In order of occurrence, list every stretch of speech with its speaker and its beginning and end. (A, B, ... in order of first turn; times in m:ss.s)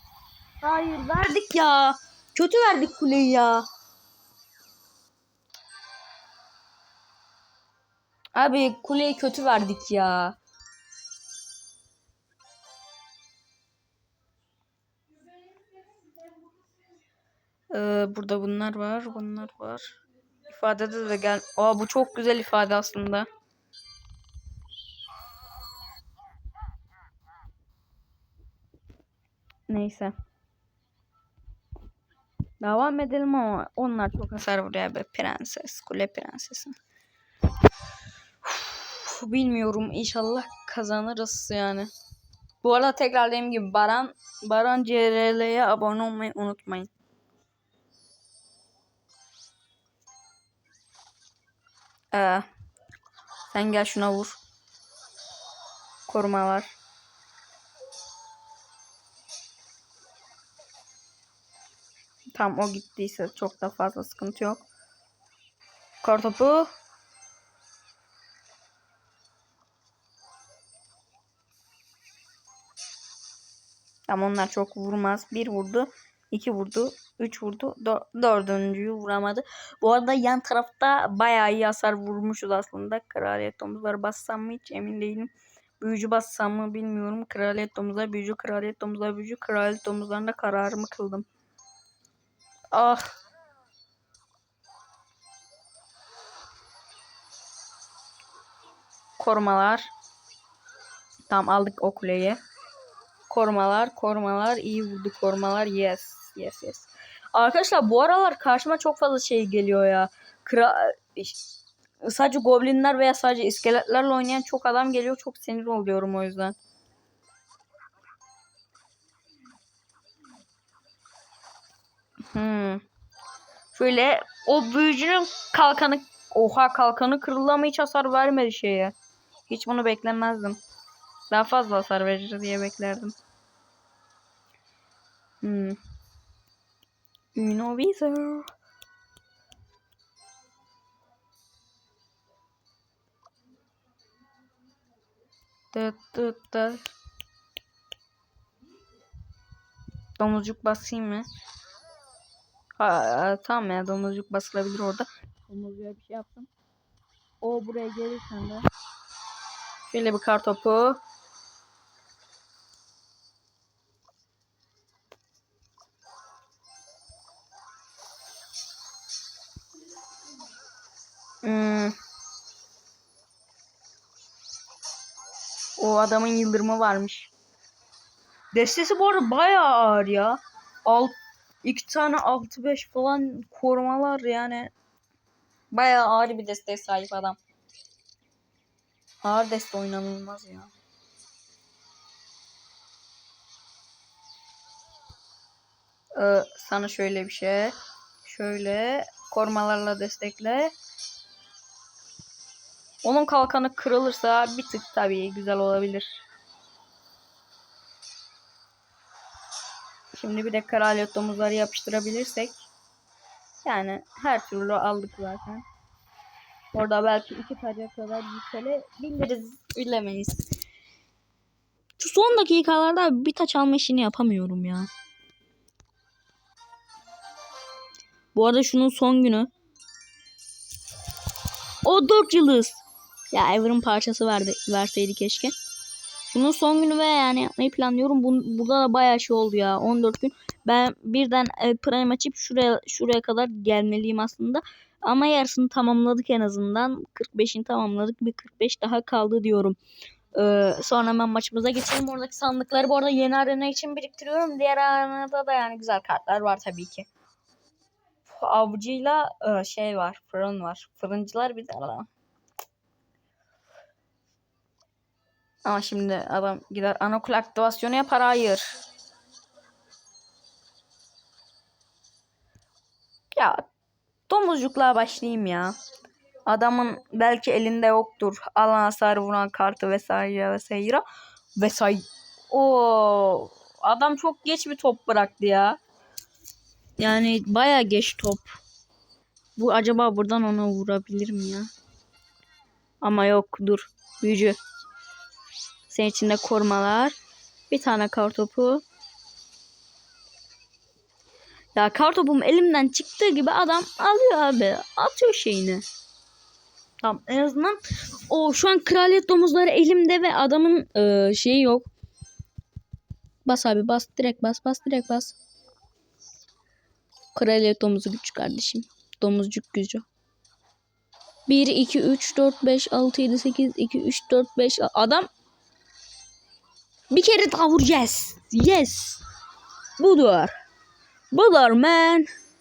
0:00.6-0:03.6 A
0:08.3-0:10.4 A
0:17.7-0:20.0 A
0:20.5-0:23.3 A
0:29.7-0:30.1 A
0:32.6-0:36.7 A
0:38.4-0:41.9 A
0:42.6-0:46.9 A
0:52.1-0:52.5 A
0:53.5-0:54.4 A
0:56.1-0:56.7 A
1:02.3-1:04.6 A
1:06.0-1:06.7 A
1:14.1-1:31.2 A
1:32.7-1:33.1 A
1:39.2-1:39.9 A
1:41.3-1:42.4 A
1:43.3-1:51.4 A
1:52.0-1:56.6 A
2:02.3-2:02.8 A
2:03.7-2:08.9 A
2:09.5-2:10.6 A
2:11.3-2:13.2 A
2:15.4-2:15.8 A
2:17.3-2:18.5 A
2:25.7-2:26.9 A
2:30.2-2:31.3 A
2:32.8-2:36.5 A
2:37.4-2:38.6 A
2:39.9-2:41.0 A
2:51.4-2:51.9 A
2:55.8-2:57.3 A
2:58.5-3:04.7 A
3:05.7-3:07.4 A
3:09.2-3:10.7 A
3:16.2-3:20.7 A
3:23.0-3:26.2 A
3:30.1-3:32.6 A
3:33.6-3:35.6 A
3:36.7-3:40.4 A
3:42.0-3:44.9 A
3:48.3-3:49.5 A
3:51.8-3:55.5 A
3:56.3-4:09.8 A
4:10.3-4:17.1 A
4:18.3-4:22.1 A
4:25.6-4:28.7 A
4:33.3-4:33.6 A
4:34.3-4:35.8 A
4:36.4-4:41.0 A
4:41.6-4:45.8 A
4:47.0-4:48.6 A
4:49.6-4:51.7 A
4:53.0-4:54.6 A
4:55.9-4:57.2 A
4:57.7-4:58.8 A
5:01.7-5:05.8 A
5:07.0-5:11.9 A
5:13.4-5:15.3 A
5:17.3-5:20.0 A
5:21.5-5:25.3 A
5:27.1-5:29.2 A
5:30.0-5:30.5 A
5:31.3-5:32.3 A